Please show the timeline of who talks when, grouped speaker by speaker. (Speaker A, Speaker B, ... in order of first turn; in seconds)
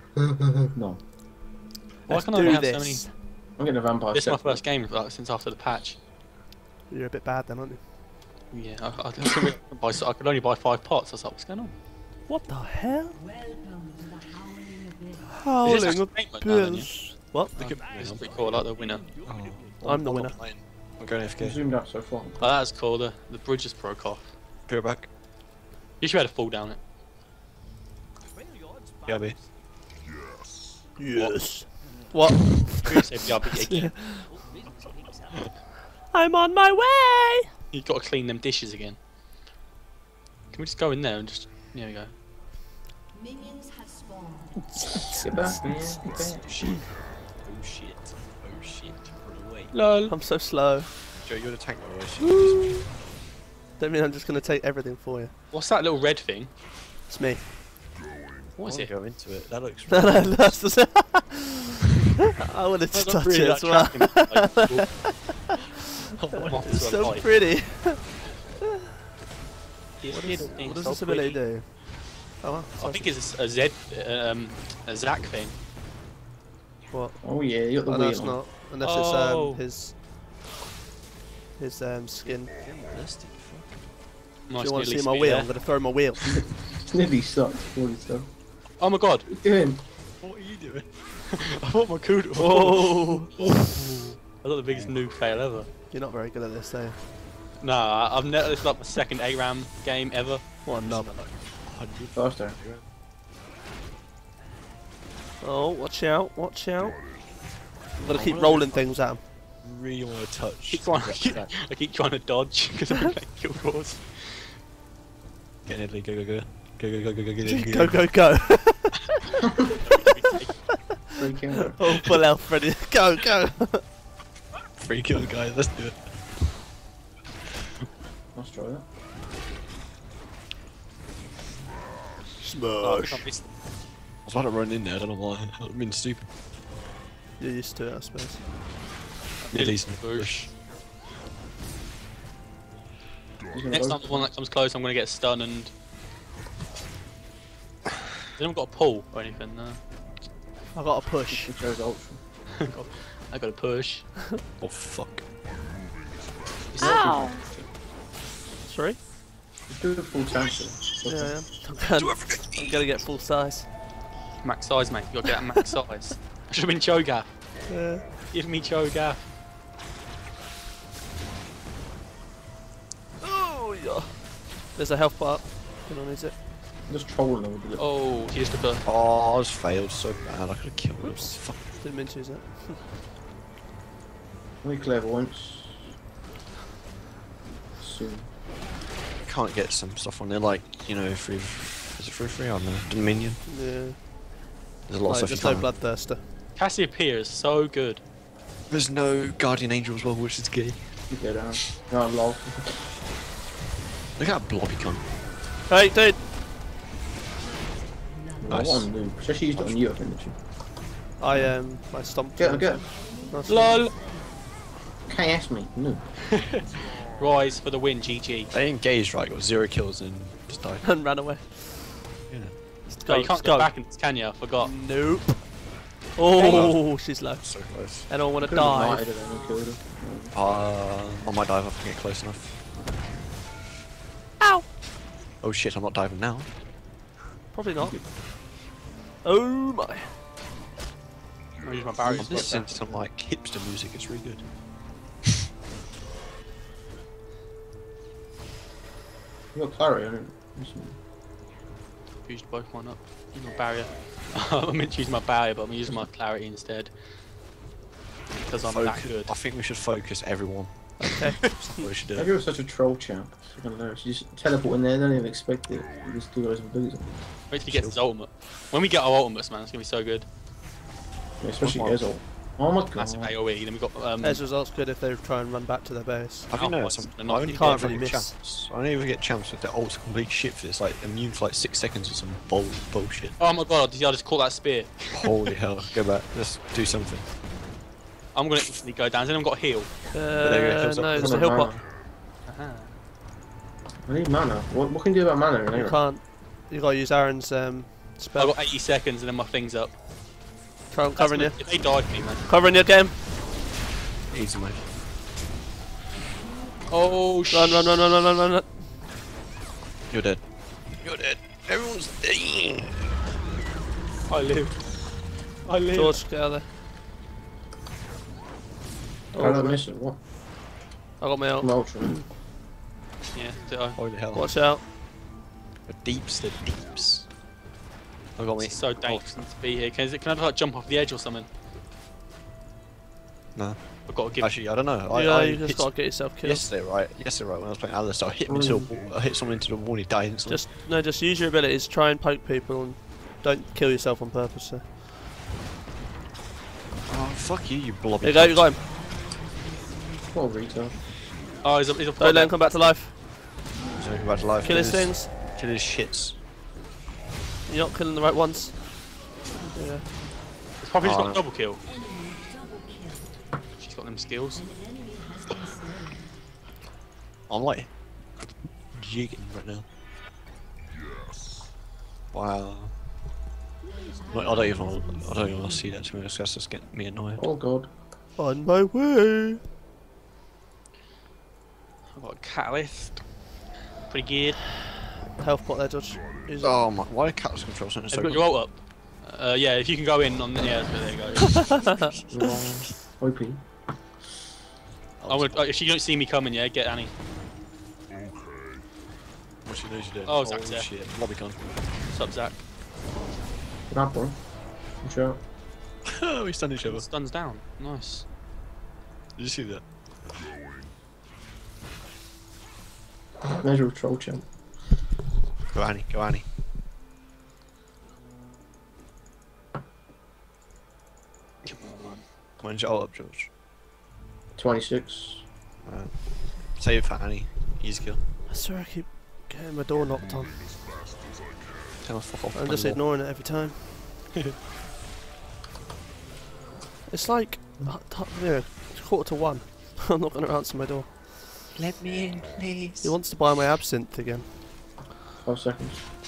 Speaker A: 0.6-1.0, 3.6-4.6, 21.4-22.4, 45.0-46.7, 77.2-78.4, 86.2-88.3, 89.3-89.8, 102.1-102.6, 119.4-119.7, 121.1-121.8, 128.3-128.8, 143.5-144.3, 151.3-152.2, 156.8-157.7, 159.7-161.4, 176.9-177.8, 184.6-185.9, 187.8-188.3, 201.1-202.8, 208.4-210.4, 212.4-212.9, 215.1-216.1, 228.4-230.3, 237.8-238.1, 242.0-243.0, 249.5-251.0, 262.1-267.1, 271.4-273.3, 291.1-291.8, 294.1-296.0, 319.3-320.2, 321.6-322.2, 338.4-338.9, 350.3-350.9, 377.4-377.9, 392.3-393.6, 403.9-404.4, 405.0-405.4, 413.5-414.5, 424.6-425.4, 445.4-446.0
Speaker B: 2.1-3.1, 6.9-7.8, 12.3-13.2, 15.3-17.5, 19.8-20.4, 31.0-34.3, 36.1-37.5, 50.1-50.9, 52.2-52.8, 53.8-55.3, 57.1-57.5, 59.9-65.6, 66.3-68.1, 70.1-71.8, 72.4-73.0, 76.9-77.2, 77.8-79.9, 81.6-82.5, 84.6-86.4, 92.4-93.3, 95.9-97.0, 100.6-101.1, 105.4-107.0, 108.0-109.2, 117.4-119.2, 121.7-123.8, 132.4-133.2, 137.4-138.4, 150.7-151.5, 156.8-157.4, 158.7-159.0, 161.1-163.7, 167.7-168.0, 173.2-174.2, 174.7-176.3, 181.0-182.8, 193.4-194.0, 195.0-196.2, 205.7-206.2, 211.2-213.9, 220.8-221.9, 223.0-223.7, 224.6-225.5, 226.1-229.0, 234.4-234.6, 237.5-238.0, 239.2-240.2, 261.0-261.8, 274.2-276.5, 277.5-278.3, 290.1-291.7, 295.7-298.6, 300.9-301.6, 302.5-303.1, 307.5-308.7, 315.9-316.6, 319.4-319.8, 321.2-321.7, 324.3-324.8, 335.1-336.6, 340.5-344.9, 348.2-348.8, 352.2-353.1, 354.6-355.3, 357.7-358.8, 359.7-360.1, 378.4-379.6, 385.4-386.8, 391.6-392.1, 428.5-430.6, 432.5-433.9, 437.1-441.3, 443.0-444.5
Speaker C: 2.1-3.1, 4.1-6.0, 8.5-11.7, 15.6-16.9, 17.5-19.1, 22.4-24.3, 26.0-26.8, 32.8-34.1, 37.7-39.0, 40.5-42.1, 49.7-50.1, 55.5-56.5, 58.6-58.9, 62.9-65.1, 66.3-67.3, 70.0-71.4, 72.8-75.5, 78.8-79.6, 84.5-85.5, 88.8-89.3, 91.3-95.7, 97.6-100.4, 110.7-114.6, 119.8-120.8, 132.8-133.4, 139.4-140.5, 143.7-145.7, 148.3-149.8, 152.5-154.1, 156.7-157.3, 164.4-167.3, 168.3-169.3, 177.8-178.8, 196.6-198.0, 213.5-213.9, 216.3-218.5, 223.0-224.7, 226.3-226.7, 241.6-242.7, 252.2-256.9, 258.4-259.3, 267.5-270.2, 272.9-274.4, 276.5-278.2, 283.4-285.5, 288.3-289.9, 292.4-293.0, 298.4-299.9, 301.1-302.4, 306.9-307.9, 314.3-314.8, 315.6-316.2, 323.3-324.0, 328.6-331.5, 334.1-334.5, 351.6-352.9, 360.8-361.8, 363.8-364.6, 382.1-383.2, 384.1-384.6, 388.1-391.9, 395.3-397.1, 400.3-400.9, 402.1-402.6, 406.8-408.2, 421.6-422.2
Speaker D: 17.6-18.6, 19.2-21.6, 24.7-25.1, 29.0-29.4, 45.2-49.7, 51.2-52.9, 58.6-60.6, 66.2-67.1, 82.2-83.8, 90.2-90.9, 100.8-102.8, 108.0-108.9, 109.6-111.5, 115.7-118.1, 124.8-126.0, 134.2-136.3, 139.5-140.5, 154.6-155.2, 161.9-162.8, 178.8-181.6, 189.2-193.4, 194.9-195.7, 198.7-200.9, 204.2-205.0, 208.5-208.9, 218.5-220.8, 222.3-222.5, 226.4-228.1, 230.3-232.6, 235.4-236.5, 242.2-244.4, 258.6-262.3, 267.6-268.0, 271.6-272.0, 276.5-283.4, 285.1-287.2, 290.3-291.7, 304.3-304.8, 310.1-310.4, 310.9-313.0, 323.9-324.5, 325.9-327.3, 328.4-329.4, 333.5-340.6, 347.1-348.7, 353.9-356.4, 361.0-361.4, 367.5-367.9, 368.9-369.9, 372.3-372.9, 374.3-377.4, 386.6-388.4, 395.2-395.6, 399.6-401.6, 406.1-407.1, 409.4-409.8, 415.7-416.4, 422.6-423.5, 425.8-428.2, 432.0-433.0, 441.7-443.1